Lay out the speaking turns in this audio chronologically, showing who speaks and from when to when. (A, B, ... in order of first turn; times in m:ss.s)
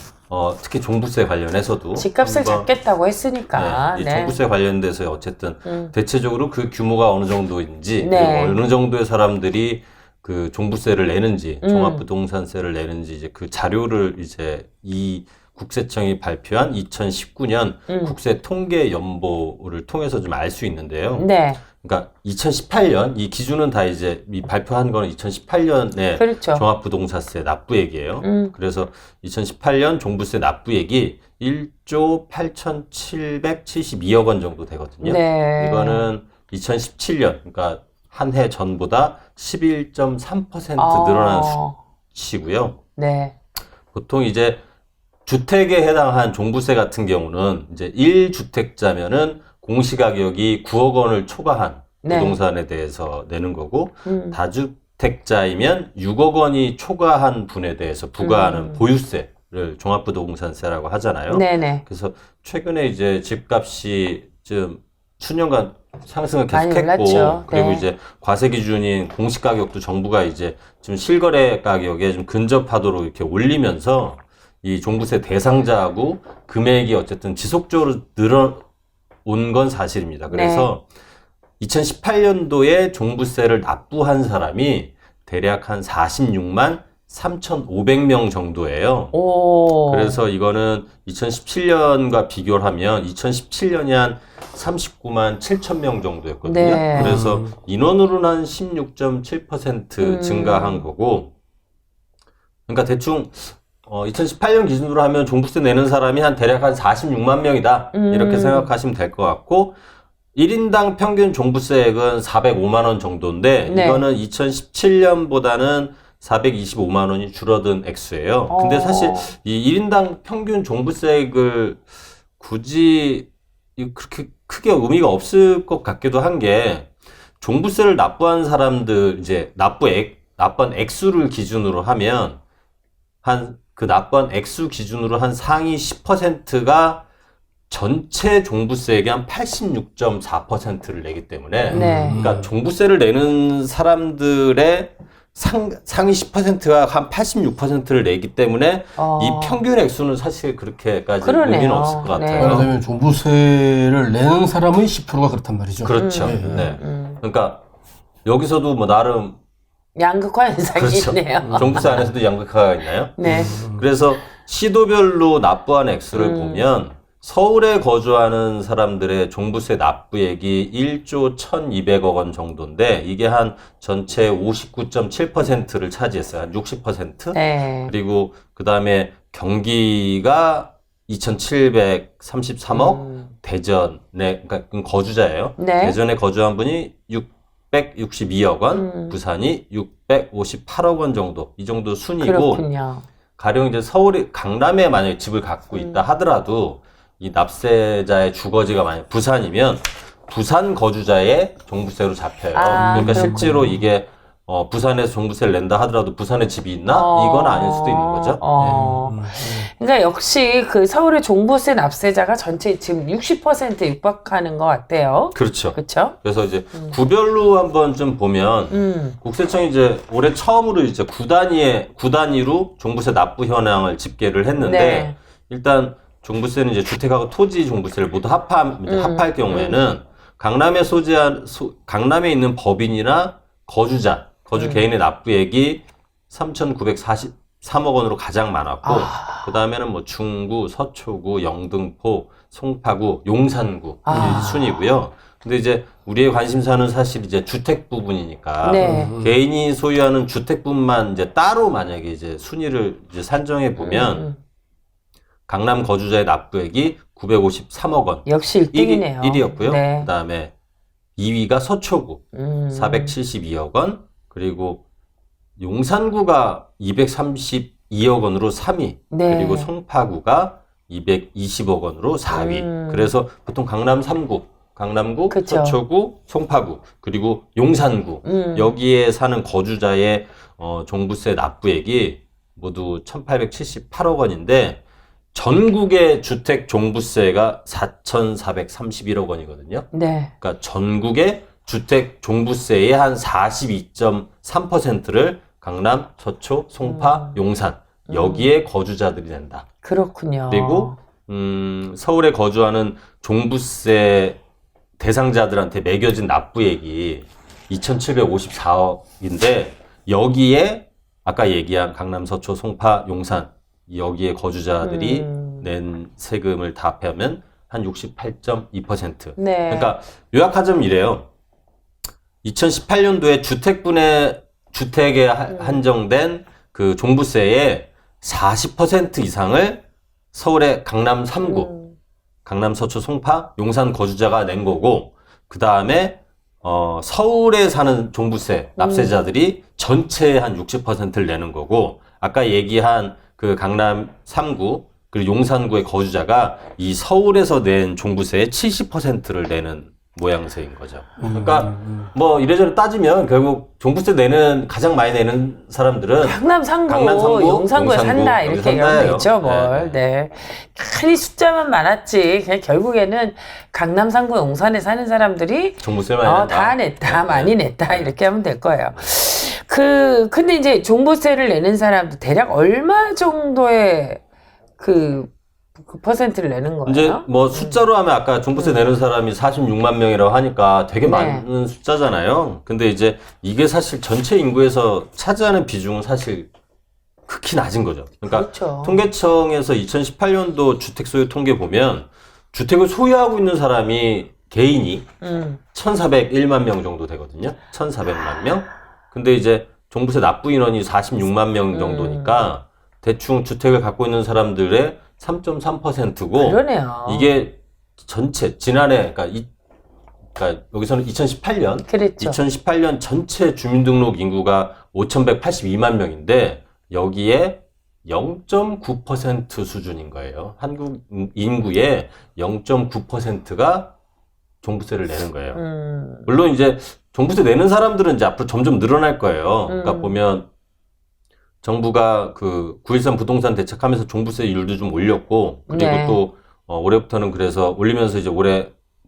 0:00.3-0:02.7 A
0:01.9-0:04.4 B
0:03.5-0:41.6 A
0:05.6-0:05.9 B
0:08.0-0:08.6 B
0:11.6-0:12.0 B
0:17.9-0:18.2 B
0:21.2-0:21.6 B
0:26.2-0:26.6 B
0:28.2-0:28.5 B
0:35.0-0:36.1 B
0:40.8-0:41.8 B
0:42.1-0:42.8 A
0:43.0-0:43.3 B
0:43.9-0:44.6 A
0:45.2-1:18.6 A
0:52.0-0:52.4 B
0:54.0-0:54.4 B
0:58.2-0:58.8 B
1:01.3-1:01.8 B
1:06.5-1:07.8 B
1:19.2-1:20.8 A
1:20.3-1:20.7 B
1:21.6-1:29.1 A
1:29.1-1:30.2 B
1:29.9-1:41.3 A
1:36.4-1:37.2 B
1:36.9-1:37.5 C
1:40.0-1:40.8 B
1:42.7-1:49.8 A
1:47.9-1:48.7 B
1:50.3-2:01.8 A
1:53.6-1:54.0 B
1:58.5-1:59.3 B
2:02.4-2:12.4 A
2:13.2-2:17.0 A
2:17.7-2:32.7 A
2:21.7-2:22.2 B
2:21.7-2:22.5 C
2:29.0-2:29.6 B
2:31.2-2:32.7 B
2:32.3-2:36.8 C
2:35.8-2:37.6 A
2:36.0-2:37.2 B
2:38.2-2:39.4 A
2:40.0-2:42.0 B
2:40.7-3:12.6 A
2:41.5-2:41.9 C
2:43.2-2:43.6 B
2:43.2-2:43.8 C
2:46.1-2:46.8 B
2:57.3-2:57.9 B
3:02.7-3:03.3 B
3:05.6-3:06.0 B
3:08.7-3:09.2 B
3:12.2-3:13.0 B
3:13.4-3:28.4 A
3:15.7-3:16.0 B
3:22.5-3:23.7 B
3:22.7-3:23.8 C
3:26.9-3:36.2 B
3:28.6-3:29.7 C
3:35.3-4:14.2 A
3:38.7-3:39.2 B
3:44.6-3:45.2 B
3:48.8-3:49.9 B
3:54.6-3:54.9 B
3:58.8-3:59.5 B
4:04.0-4:04.9 B
4:04.1-4:04.6 C
4:08.6-4:09.1 B
4:08.8-4:09.4 C
4:13.8-4:14.4 B
4:15.5-4:20.5 A
4:18.2-4:20.1 B
4:21.2-4:24.8 A
4:22.3-4:23.1 B
4:25.6-4:44.8 A
4:29.1-4:29.7 B
4:32.3-4:33.1 B
4:35.3-4:35.8 B
4:38.2-4:38.8 B
4:45.3-4:49.9 A
4:49.9-4:50.3 B
4:50.4-4:59.6 A
4:56.8-4:57.4 B
4:58.1-4:58.5 B
4:59.8-5:01.0 B
5:00.5-5:04.4 A
5:05.0-5:21.3 A
5:14.8-5:15.7 B
5:19.4-5:19.9 B
5:22.4-5:31.7 A
5:25.5-5:25.8 B
5:31.4-5:32.0 B
5:32.4-6:00.0 A
5:38.8-5:39.2 B
5:51.2-5:52.1 C
5:56.2-6:14.2 B
6:05.8-6:08.1 A
6:14.8-6:17.9 B
6:16.8-6:26.5 A
6:18.5-6:18.8 B
6:21.0-6:21.4 B
6:27.3-6:35.1 A
6:28.2-6:29.1 B
6:35.2-6:35.6 B
6:35.7-6:49.5 A
6:41.7-6:42.5 B
6:46.4-6:47.3 B
6:50.3-7:03.9 A
6:51.8-6:52.4 B
7:04.6-7:05.6 A
7:05.5-7:06.3 B
7:06.2-7:10.5 A
7:09.7-7:10.2 B
7:11.6-7:18.7 A
7:15.7-7:16.2 B